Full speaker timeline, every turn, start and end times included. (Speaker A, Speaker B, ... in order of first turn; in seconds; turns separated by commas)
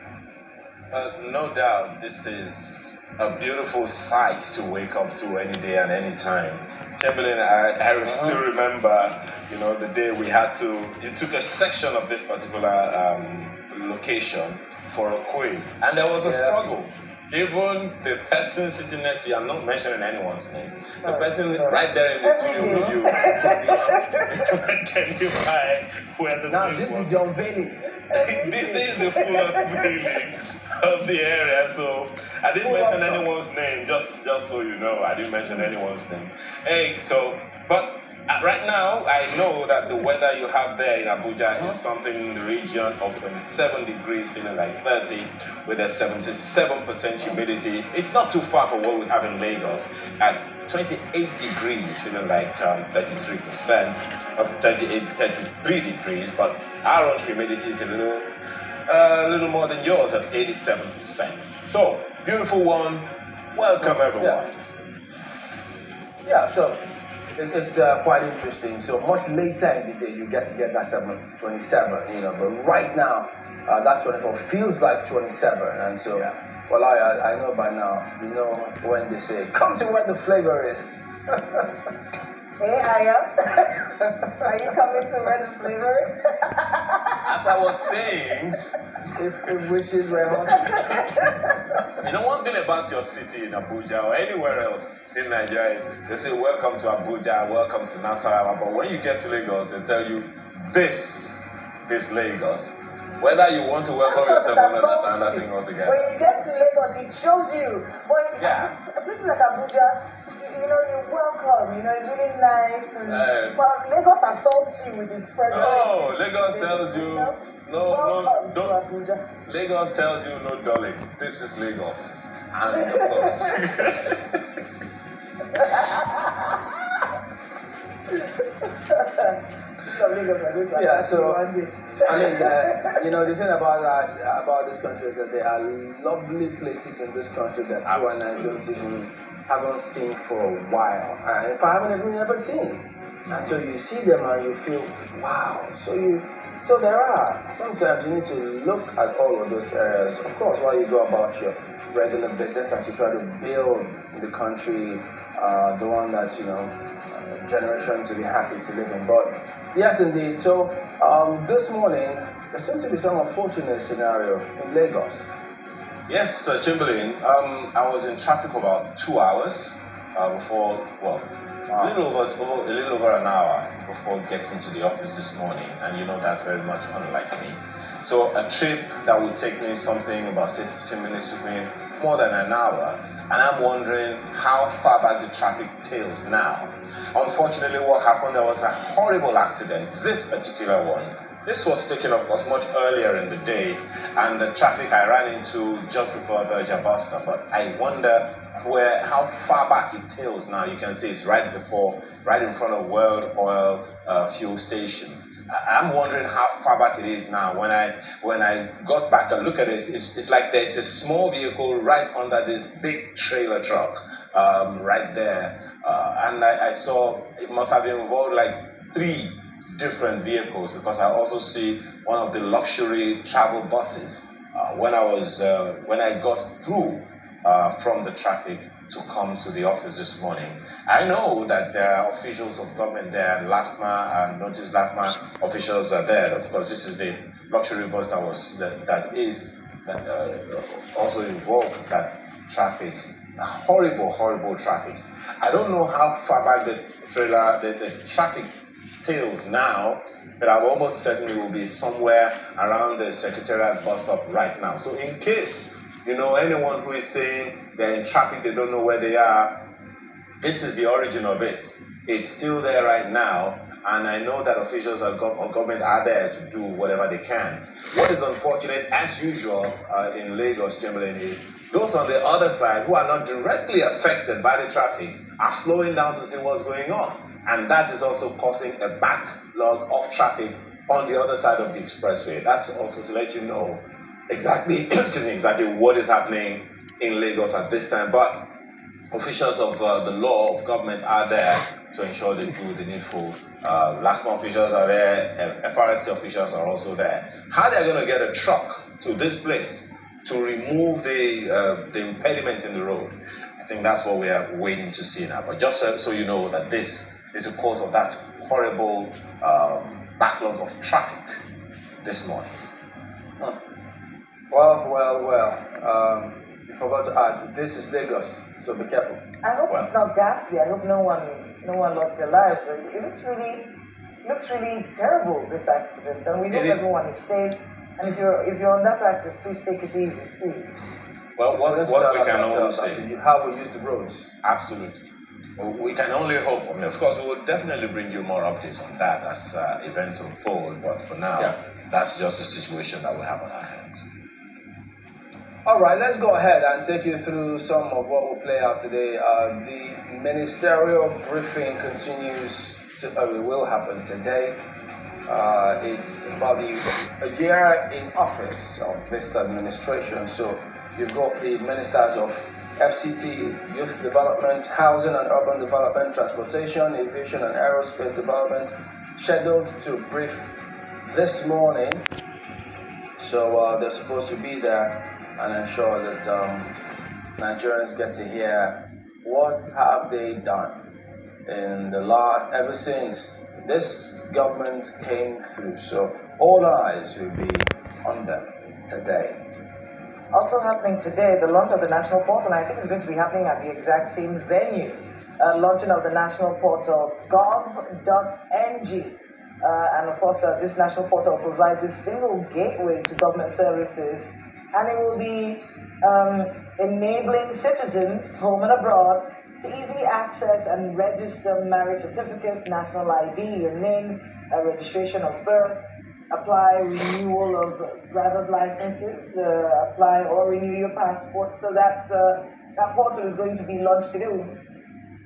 Speaker A: 0.9-27.2, Speaker B: 8.1-8.4, Speaker B: 16.2-16.6, Speaker C: 21.0-24.4, Speaker B: 22.6-23.0, Speaker B: 26.5-28.0, Speaker A: 28.1-58.3, Speaker C: 28.2-29.6, Speaker B: 32.6-33.3, Speaker A: 58.9-64.6, Speaker B: 63.8-64.4, Speaker B: 66.2-66.8, Speaker B: 67.4-81.7, Speaker C: 82.6-83.9, Speaker C: 84.4-87.2, Speaker A: 87.2-88.6, Speaker B: 89.1-91.0, Speaker A: 90.7-91.1, Speaker C: 90.7-91.5, Speaker A: 92.0-106.1, Speaker C: 104.0-119.3, Speaker A: 108.4-108.7, Speaker A: 113.1-113.6, Speaker A: 115.5-118.8, Speaker A: 119.4-124.4, Speaker C: 125.6-126.5, Speaker C: 128.9-132.9, Speaker B: 130.7-131.5, Speaker B: 132.0-165.3, Speaker A: 137.8-138.8, Speaker A: 143.3-143.5, Speaker A: 166.1-259.5, Speaker B: 171.7-171.9, Speaker A: 260.4-288.5, Speaker A: 289.1-311.4, Speaker A: 312.0-312.5, Speaker B: 314.5-319.2, Speaker C: 319.4-323.7, Speaker C: 324.2-330.9, Speaker A: 326.5-326.8, Speaker A: 331.4-333.1, Speaker B: 331.6-334.3, Speaker A: 334.4-335.0, Speaker A: 335.6-344.1, Speaker B: 345.7-354.6, Speaker B: 355.3-370.5, Speaker B: 371.0-372.1, Speaker B: 373.2-376.8, Speaker B: 377.4-380.8, Speaker B: 381.5-389.4, Speaker C: 390.3-424.6